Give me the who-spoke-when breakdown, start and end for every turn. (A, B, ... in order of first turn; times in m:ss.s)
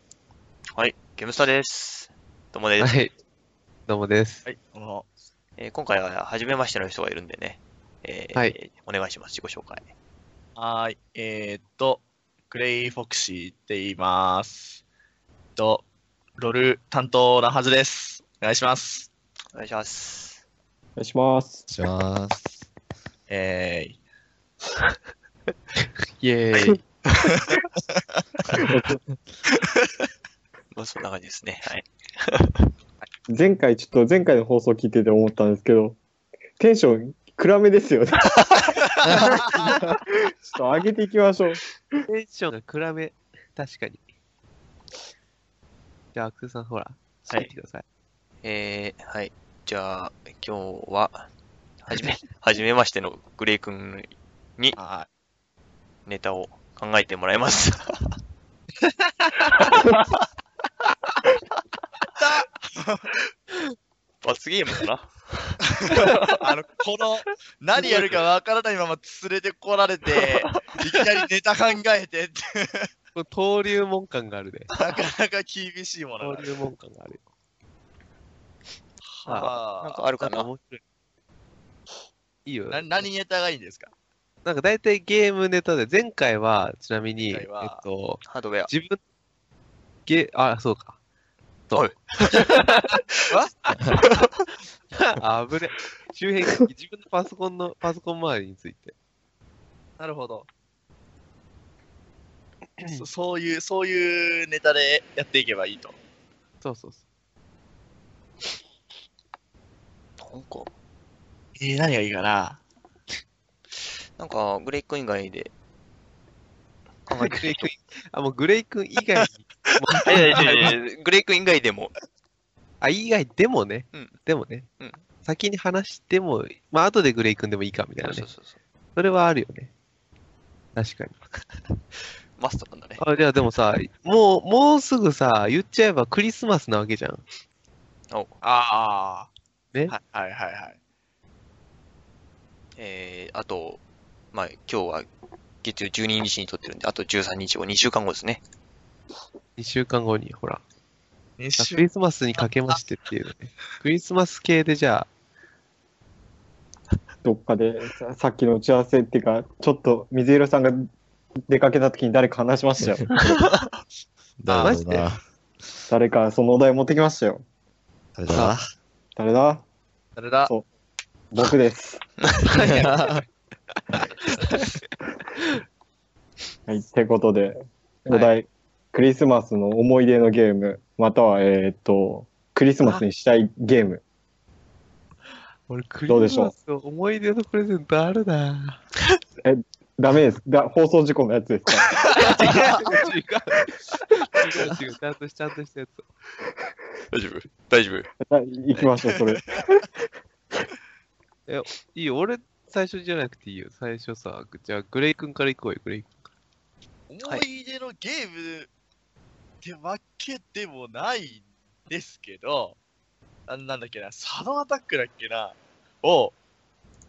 0:00.8-0:03.0 A
0:02.8-0:03.1 B
0:03.9-0:04.5 B
0:04.4-0:05.1 C
0:05.6-0:09.9 A
0:10.6-0:14.8 C
0:15.6-0:15.8 C
0:16.4-0:19.1 C
0:19.5-0:20.4 A
0:21.0-0:21.6 D
0:21.7-0:22.6 E
0:23.3-0:24.0 C
0:26.2-0:26.8 B
0:27.2-0:28.2 C
0:28.6-0:29.0 D
0:30.7-0:32.7 A
0:33.3-0:36.0 D
0:36.6-0:41.6 D
0:39.0-0:39.5 C
0:39.1-0:39.4 E
0:42.1-0:44.0 B
0:46.1-0:47.8 B
0:48.4-0:51.3 A
0:51.8-0:54.8 A
0:54.8-0:55.1 C
0:56.1-0:58.2 A
0:59.0-0:59.7 B
1:02.2-1:03.1 C
1:04.2-1:05.6 A
1:05.7-1:12.9 C
1:10.5-1:10.8 A
1:13.2-1:14.7 B
1:14.8-1:16.5 C
1:16.2-1:17.2 B
1:19.0-1:19.9 C
1:19.3-1:20.5 A
1:19.9-1:20.8 B
1:22.4-1:23.1 B
1:22.7-1:23.9 C
1:24.4-1:29.0 B
1:27.3-1:27.8 C
1:28.3-1:28.7 A
1:30.1-1:31.0 B
1:31.7-1:34.1 B
1:31.7-1:32.6 A
1:34.0-1:34.3 A
1:34.9-1:38.9 B
1:40.0-1:40.5 C
1:42.8-1:43.1 B
1:42.9-1:46.0 C
1:46.6-1:47.0 B
1:50.2-1:50.7 A
1:51.6-1:52.6 C
1:54.2-1:55.5 A
1:57.1-1:57.7 A
1:57.2-2:00.7 B
1:59.7-2:00.8 C
2:00.0-2:01.9 A
2:02.8-2:04.7 B
2:05.2-2:08.3 B
2:08.0-2:08.6 A
2:09.0-2:09.7 B
2:10.8-2:11.2 B
2:12.4-2:13.0 A
2:13.0-2:17.2 B
2:18.4-2:19.3 C
2:19.9-2:20.8 C
2:22.8-2:23.8 A
2:24.3-2:25.1 A
2:25.6-2:28.4 A
2:29.6-2:30.6 B
2:31.4-2:31.9 C
2:31.6-2:35.1 B
2:37.2-2:40.9 D
2:41.5-2:43.1 D
2:44.4-2:45.2 E
2:44.5-2:44.8 C
2:44.6-2:45.1 B
2:45.9-2:47.4 D
2:48.2-2:48.7 E
2:49.2-2:49.6 D
2:50.2-2:50.5 C
2:51.3-2:52.0 D
2:52.5-2:53.2 B
2:52.6-2:53.2 E
2:54.2-2:54.8 B
2:56.7-3:04.0 D
3:05.7-3:08.8 B
3:06.1-3:06.5 D
3:09.4-3:12.0 D
3:12.0-3:16.1 B
3:12.2-3:13.0 A
3:12.3-3:12.9 C
3:17.1-3:18.1 A
3:18.2-3:19.9 D
3:19.2-3:19.4 C
3:21.5-3:26.3 B
3:27.1-3:28.7 C
3:29.6-3:32.8 C
3:33.5-3:36.4 C